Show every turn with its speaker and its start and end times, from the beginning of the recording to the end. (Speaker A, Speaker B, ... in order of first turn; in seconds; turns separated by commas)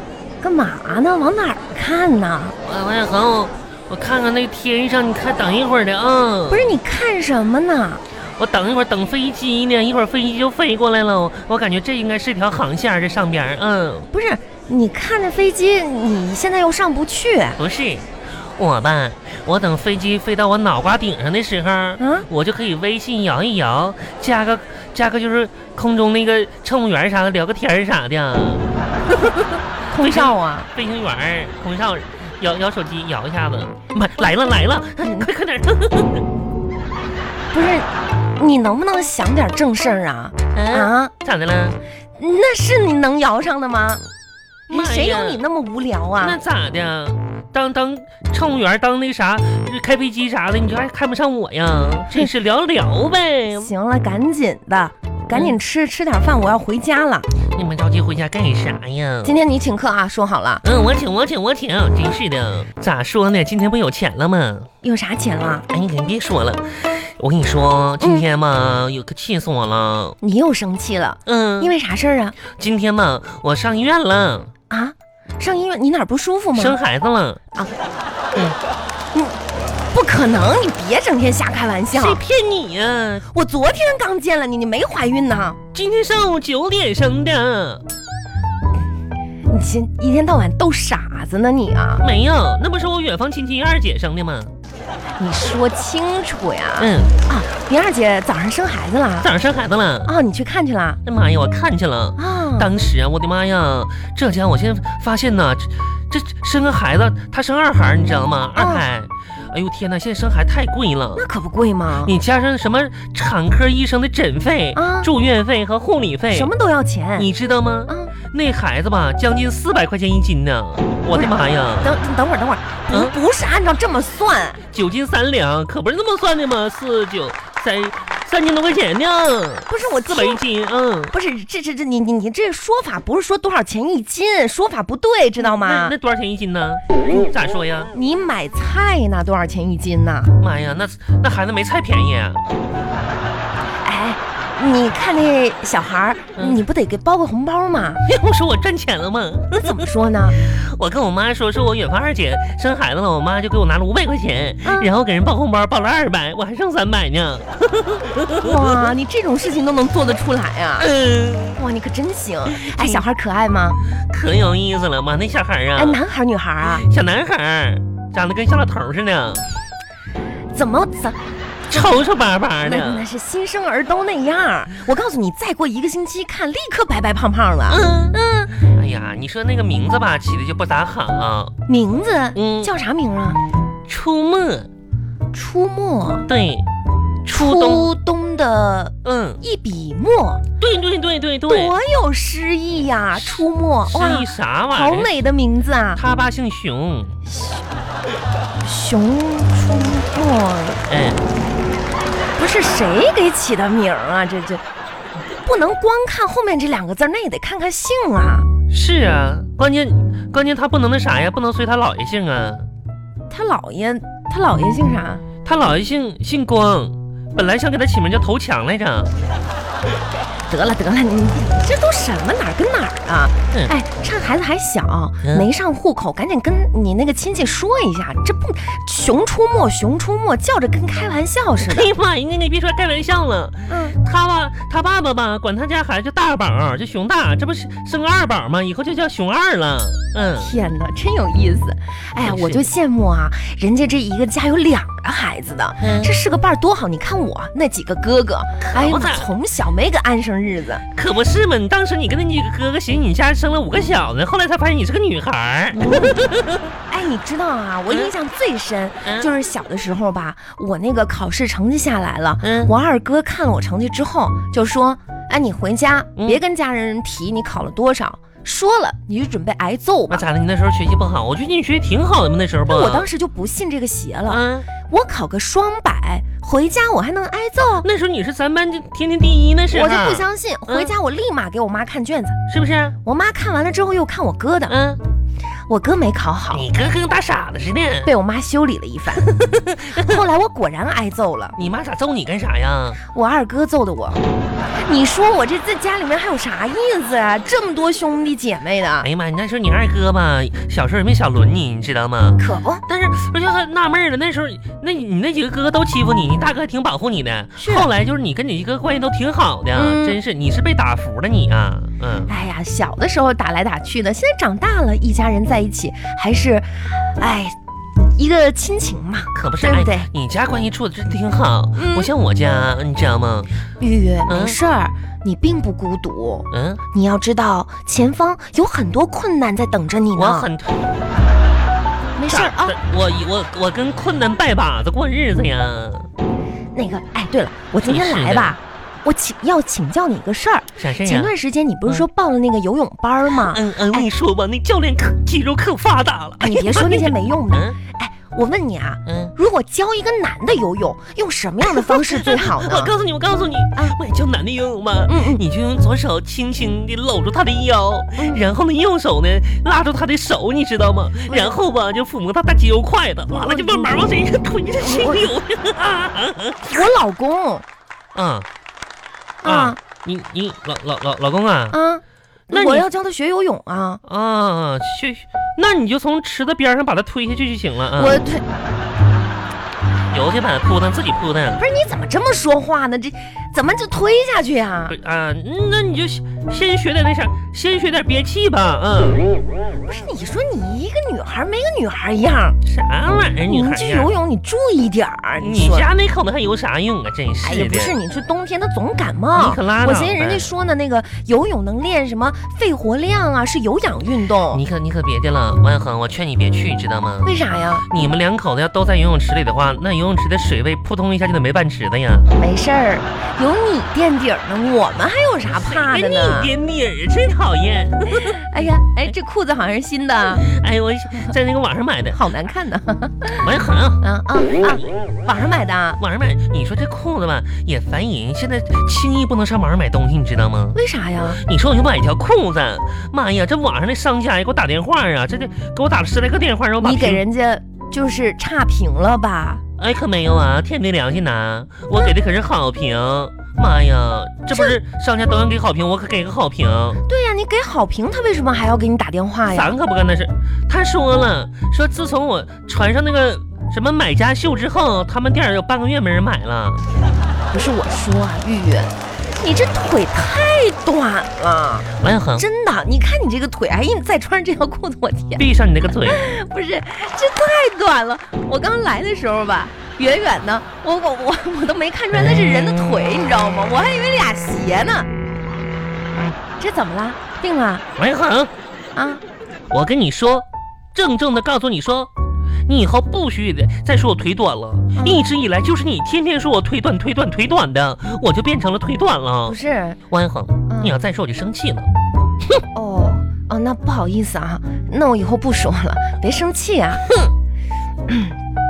Speaker A: 0.4-2.5, Speaker B: 2.6-6.8, Speaker A: 6.5-8.0, Speaker B: 8.4-14.1, Speaker A: 14.1-17.6, Speaker B: 17.6-28.7, Speaker A: 22.0-22.2, Speaker A: 29.9-30.7, Speaker B: 29.9-36.2, Speaker A: 35.0-35.3, Speaker A: 37.5-41.1, Speaker B: 40.5-41.8, Speaker A: 42.2-44.0, Speaker B: 44.7-45.4, Speaker A: 44.7-46.4, Speaker B: 46.2-53.7, Speaker A: 53.5-57.3, Speaker B: 55.3-55.6, Speaker B: 57.5-59.4, Speaker A: 59.2-60.6, Speaker B: 60.6-64.7, Speaker A: 64.8-65.6, Speaker B: 65.7-70.2, Speaker A: 70.2-72.3, Speaker B: 71.2-71.7, Speaker B: 72.6-74.5, Speaker A: 74.7-76.8, Speaker B: 76.5-77.4, Speaker A: 79.9-82.2, Speaker B: 81.9-83.3, Speaker A: 83.3-85.6, Speaker B: 85.7-87.8, Speaker A: 89.5-92.0, Speaker B: 92.0-94.5, Speaker A: 95.2-99.3, Speaker B: 96.8-97.1, Speaker B: 99.2-100.1, Speaker A: 100.0-101.0, Speaker B: 101.0-111.2, Speaker A: 102.2-102.7, Speaker A: 108.5-108.8, Speaker A: 111.1-112.1, Speaker B: 112.0-116.5, Speaker A: 114.7-115.1, Speaker A: 116.3-117.3, Speaker B: 117.2-121.9, Speaker A: 117.9-118.1, Speaker A: 121.1-124.6, Speaker B: 124.7-131.1, Speaker A: 129.7-130.4, Speaker A: 131.1-135.9, Speaker B: 135.4-137.9, Speaker A: 137.9-140.3, Speaker B: 140.4-142.4, Speaker A: 143.8-148.0, Speaker B: 146.3-146.6, Speaker B: 148.0-158.9, Speaker A: 149.6-150.4, Speaker A: 154.6-154.9, Speaker A: 158.4-160.9, Speaker B: 160.8-161.6, Speaker A: 161.6-163.8, Speaker B: 162.5-163.0, Speaker B: 163.9-166.0, Speaker A: 165.8-166.8, Speaker B: 166.6-169.4, Speaker A: 170.5-171.2, Speaker B: 171.7-173.1, Speaker A: 171.7-172.0, Speaker A: 172.6-178.5, Speaker B: 177.7-181.5, Speaker A: 181.7-183.4, Speaker B: 182.3-182.7, Speaker B: 183.9-184.7, Speaker A: 185.3-186.2, Speaker B: 186.3-186.7, Speaker B: 187.2-187.9, Speaker A: 187.3-190.4, Speaker B: 189.0-189.4, Speaker B: 190.6-191.7, Speaker A: 191.5-196.0, Speaker B: 193.1-195.1, Speaker B: 195.9-197.2, Speaker A: 197.3-197.6, Speaker A: 198.6-200.8, Speaker B: 200.9-201.2, Speaker A: 202.3-204.6, Speaker A: 205.4-208.5, Speaker B: 208.7-212.7, Speaker A: 213.3-215.2, Speaker B: 215.4-219.1, Speaker A: 220.5-231.9, Speaker B: 225.2-225.5, Speaker B: 231.6-240.5, Speaker A: 233.7-233.9, Speaker A: 240.4-250.8, Speaker B: 242.2-242.7, Speaker B: 245.8-246.1, Speaker B: 248.6-249.3, Speaker B: 250.9-256.7, Speaker A: 255.7-256.2, Speaker A: 256.9-270.2, Speaker B: 259.0-259.3, Speaker B: 262.4-262.7, Speaker B: 270.1-273.1, Speaker A: 272.7-277.9, Speaker B: 274.3-274.7, Speaker B: 277.8-280.9, Speaker A: 279.7-282.4, Speaker B: 282.5-282.9, Speaker A: 283.0-284.7, Speaker B: 284.7-285.0, Speaker A: 285.7-286.6, Speaker B: 286.5-288.1, Speaker A: 288.0-289.3, Speaker B: 289.2-290.2, Speaker A: 289.8-291.6, Speaker B: 291.6-293.0, Speaker A: 293.0-294.2, Speaker A: 294.8-299.1, Speaker B: 299.0-312.3, Speaker A: 302.4-302.8, Speaker A: 307.6-307.9, Speaker A: 309.7-310.2, Speaker A: 312.3-317.5, Speaker A: 318.1-320.1, Speaker B: 319.3-323.5, Speaker A: 321.8-322.1, Speaker A: 323.8-330.5, Speaker B: 324.3-324.6, Speaker B: 326.5-326.8, Speaker B: 330.1-330.8, Speaker A: 332.1-332.8, Speaker B: 332.3-336.1, Speaker A: 336.7-344.1, Speaker B: 337.9-338.6, Speaker B: 340.8-341.3, Speaker B: 343.3-347.8, Speaker A: 346.4-352.9, Speaker B: 349.1-349.3, Speaker B: 351.6-366.9, Speaker A: 355.1-355.4, Speaker A: 361.3-361.6, Speaker A: 363.3-364.0, Speaker A: 364.8-365.3, Speaker A: 366.7-367.6, Speaker B: 368.1-368.5, Speaker A: 369.4-369.8, Speaker B: 369.4-371.8, Speaker A: 371.7-374.0, Speaker B: 372.5-372.9, Speaker B: 374.0-378.2, Speaker A: 377.9-378.4, Speaker B: 380.1-381.6, Speaker A: 381.6-384.9, Speaker B: 384.9-389.3, Speaker A: 389.9-392.6, Speaker B: 392.6-394.1, Speaker A: 393.5-395.9, Speaker B: 395.4-397.9, Speaker A: 397.4-404.6, Speaker B: 399.3-400.5, Speaker B: 404.5-407.4, Speaker A: 407.2-407.9, Speaker B: 407.9-412.3, Speaker A: 412.4-416.5, Speaker B: 415.5-419.1, Speaker A: 418.3-420.4, Speaker B: 420.2-422.2, Speaker A: 422.1-423.4, Speaker B: 423.4-424.0, Speaker A: 424.0-426.0, Speaker B: 426.0-430.8, Speaker A: 430.7-431.4, Speaker B: 431.4-437.2, Speaker A: 436.8-439.6, Speaker B: 439.8-447.0, Speaker A: 444.5-444.8, Speaker A: 447.0-449.7, Speaker B: 449.5-456.8, Speaker A: 457.5-465.4, Speaker B: 462.0-462.4, Speaker B: 465.4-466.2, Speaker A: 466.0-475.1, Speaker B: 472.1-473.1, Speaker A: 476.6-477.8, Speaker B: 478.0-478.5, Speaker A: 478.9-479.2, Speaker B: 479.7-482.1, Speaker B: 482.7-489.6, Speaker A: 484.9-485.2, Speaker A: 489.5-490.0, Speaker B: 490.1-491.9, Speaker A: 490.7-491.0, Speaker A: 492.7-497.0, Speaker B: 497.1-497.3, Speaker A: 498.1-498.3